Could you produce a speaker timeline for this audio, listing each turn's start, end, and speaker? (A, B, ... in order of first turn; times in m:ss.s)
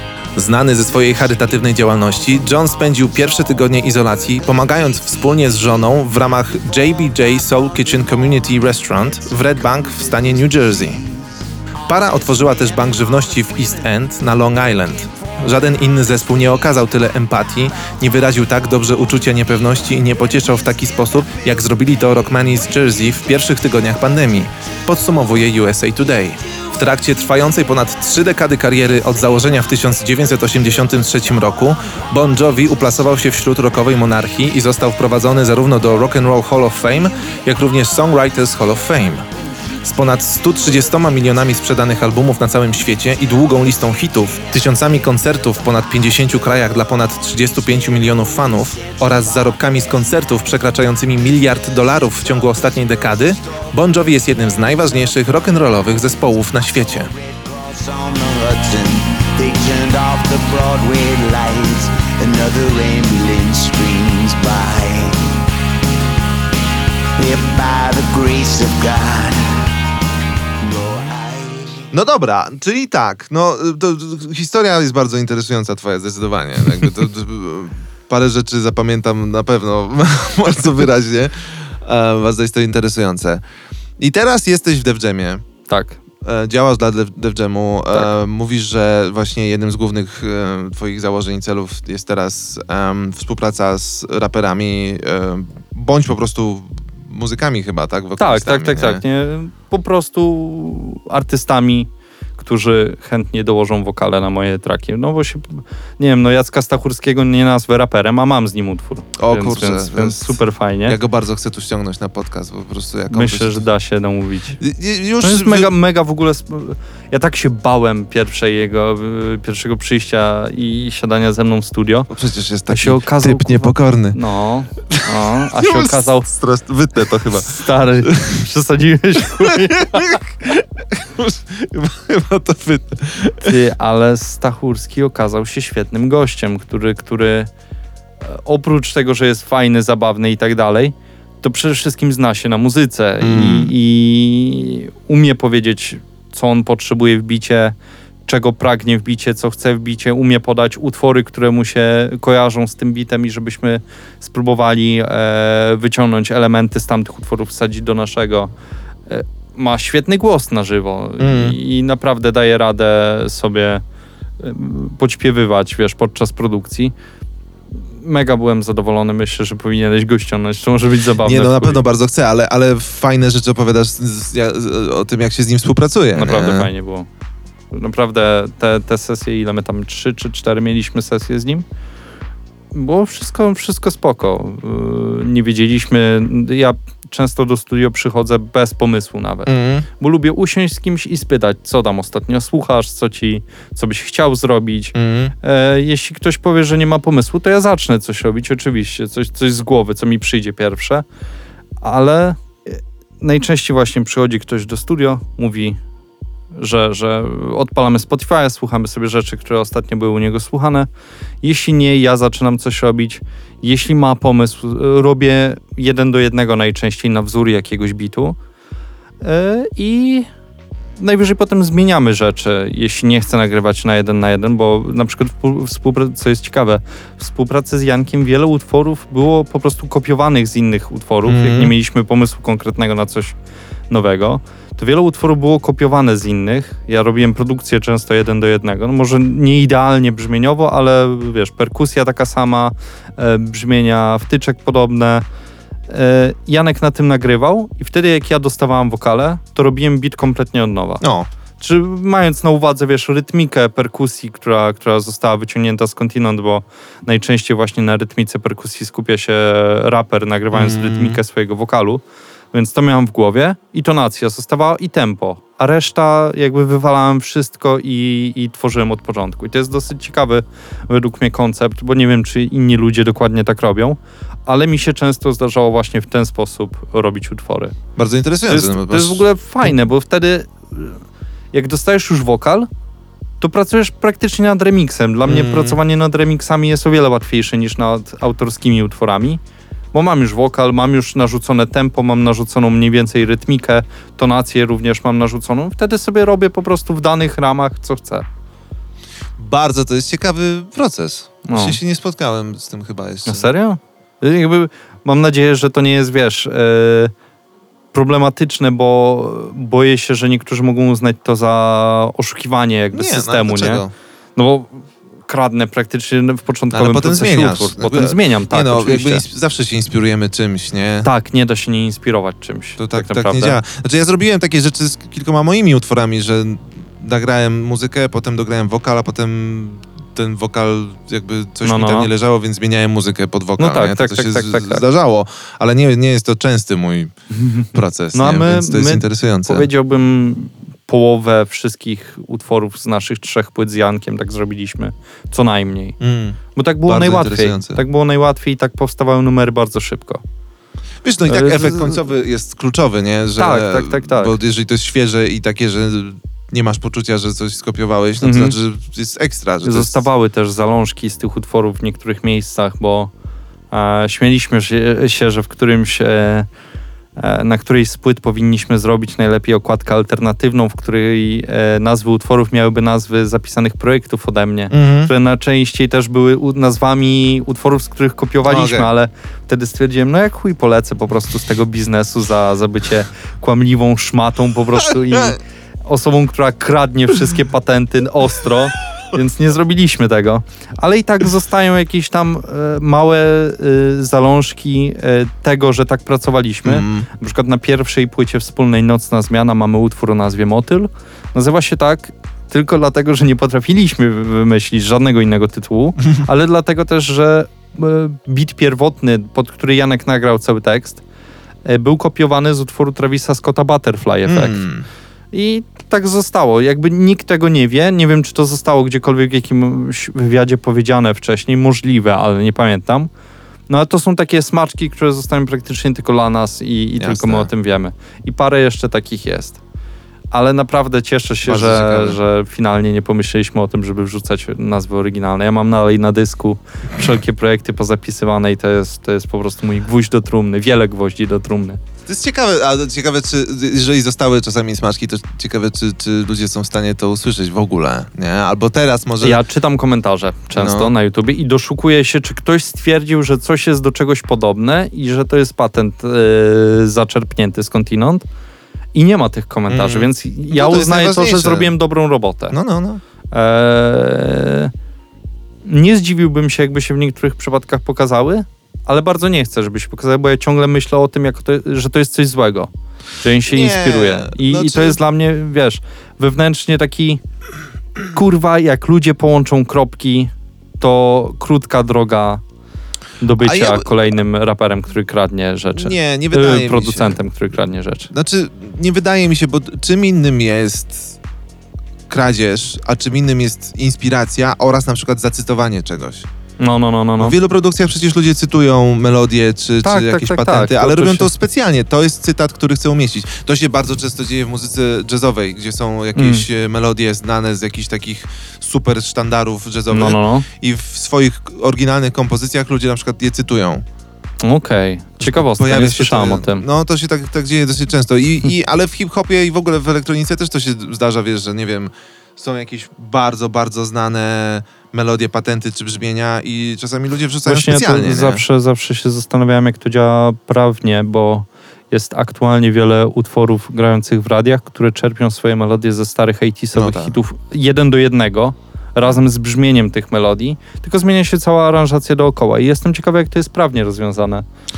0:00.3-0:11.0 A
0:11.9-0:39.2 A
0:39.8-0:57.1 A
0:48.7-0:49.4 B
0:56.9-1:05.2 B
1:07.2-1:09.4 B
1:10.6-1:11.8 B
1:11.9-1:23.4 A
1:24.0-1:25.4 A
1:25.7-1:26.0 C
1:26.2-1:39.0 A
1:38.2-1:51.0 C
1:49.2-1:53.6 A
1:53.1-1:54.6 C
1:54.6-1:55.7 A
1:55.2-2:02.1 C
2:02.1-2:04.2 A
2:02.7-2:06.3 C
2:04.9-2:08.4 A
2:07.3-2:10.2 C
2:09.2-2:13.6 A
2:13.4-2:17.5 C
2:18.2-2:27.7 C
2:23.2-2:23.7 A
2:28.2-2:38.5 C
2:39.1-2:43.8 C
2:41.2-2:41.6 A
2:44.4-2:46.9 C
2:48.0-2:51.8 C
2:51.2-2:56.7 A
2:56.1-2:57.1 C
2:57.7-3:01.6 C
3:02.7-3:21.0 C
3:09.4-3:09.8 A
3:14.9-3:15.3 A
3:21.8-3:25.8 C
3:26.6-3:30.9 C
3:31.4-3:38.4 C
3:39.2-3:40.3 C
3:41.0-3:53.4 C
3:51.2-3:51.7 A
3:53.9-4:05.2 C
4:05.9-4:11.0 C
4:11.0-4:11.3 A
4:11.6-4:22.0 C
4:20.5-4:21.2 A
4:22.5-4:37.7 C
4:38.0-4:39.7 A
4:38.4-4:41.0 C
4:41.5-4:42.7 C
4:43.4-4:49.4 C
4:45.2-4:45.8 A
4:49.9-4:58.2 C
4:59.4-5:03.5 A
5:01.4-5:01.8 C
5:03.2-5:07.1 C
5:07.9-5:13.8 C
5:12.9-5:13.9 A
5:14.4-5:19.2 C
5:16.7-5:21.1 A
5:21.0-5:23.6 C
5:22.8-5:37.1 A
5:31.6-5:32.1 C
5:33.6-5:34.8 C
5:37.3-5:46.0 C
5:37.7-5:39.7 A
5:46.0-5:47.8 A
5:46.5-5:50.2 C
5:51.0-6:00.0 A
5:51.2-5:52.0 C
5:53.4-5:54.4 C
5:58.2-5:58.6 C
5:59.6-6:03.1 C
6:03.7-6:06.5 C
6:07.2-6:51.0 C
6:14.7-6:15.1 A
6:18.4-6:18.9 A
6:24.9-6:25.4 A
6:36.6-6:37.1 A
6:51.6-6:54.6 C
6:54.2-6:54.9 A
6:55.3-7:03.1 C
7:03.7-7:09.6 C
7:07.0-7:07.5 A
7:10.3-7:21.8 C
7:11.4-7:12.2 A
7:22.0-7:29.4 A
7:29.2-7:38.2 C
7:30.5-7:30.9 A
7:38.9-7:42.6 C
7:39.7-7:41.7 A
7:42.5-7:43.0 A
7:43.3-7:44.7 C
7:45.6-7:57.2 C
7:53.5-7:55.0 A
7:58.1-8:02.4 C
8:03.2-8:08.1 C
8:03.4-8:04.0 A
8:05.7-8:07.2 A
8:08.1-8:11.2 A
8:12.1-8:16.3 A
8:16.6-8:17.4 C
8:17.2-8:33.8 A
8:19.8-8:21.3 C
8:26.2-8:26.4 C
8:29.9-8:30.5 C
8:34.4-8:36.6 C
8:35.2-8:48.4 A
8:47.4-9:04.4 C
8:56.7-8:57.2 A